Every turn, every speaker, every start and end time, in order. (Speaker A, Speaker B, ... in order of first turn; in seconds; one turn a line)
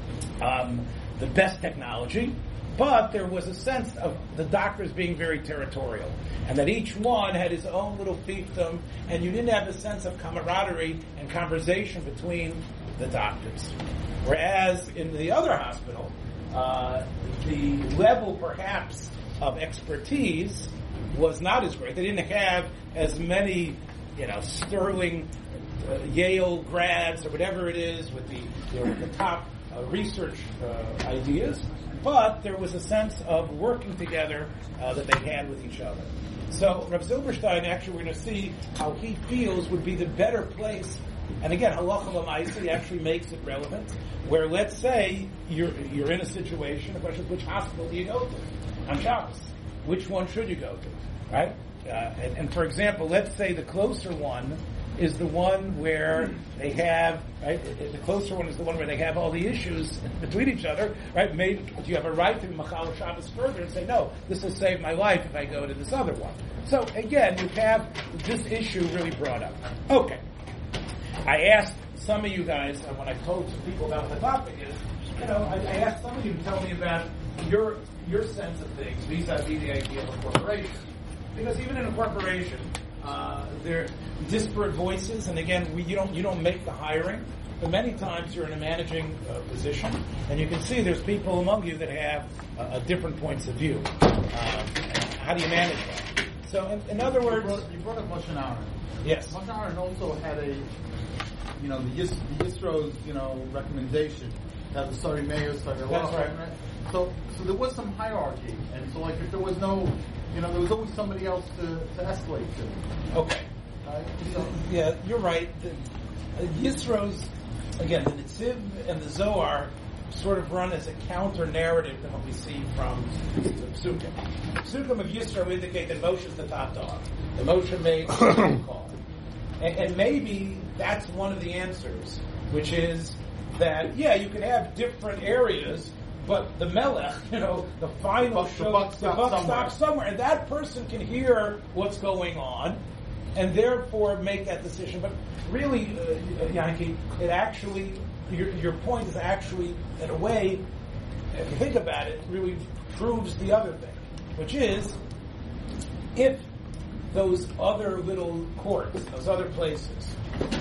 Speaker A: 0.4-70.2
Speaker A: 71.2-80.8
Speaker A: 81.3-97.6
Speaker B: 97.0-98.7
Speaker A: 99.0-99.3
Speaker B: 99.3-100.7
Speaker B: 101.5-112.8
Speaker A: 105.9-106.3
Speaker A: 113.1-113.4
Speaker B: 113.8-114.5
Speaker A: 114.2-115.8
Speaker A: 116.3-128.9
Speaker A: 129.6-142.8
Speaker B: 138.3-139.7
Speaker A: 143.3-150.6
Speaker A: 151.3-155.0
Speaker A: 156.1-156.4
Speaker A: 157.1-160.2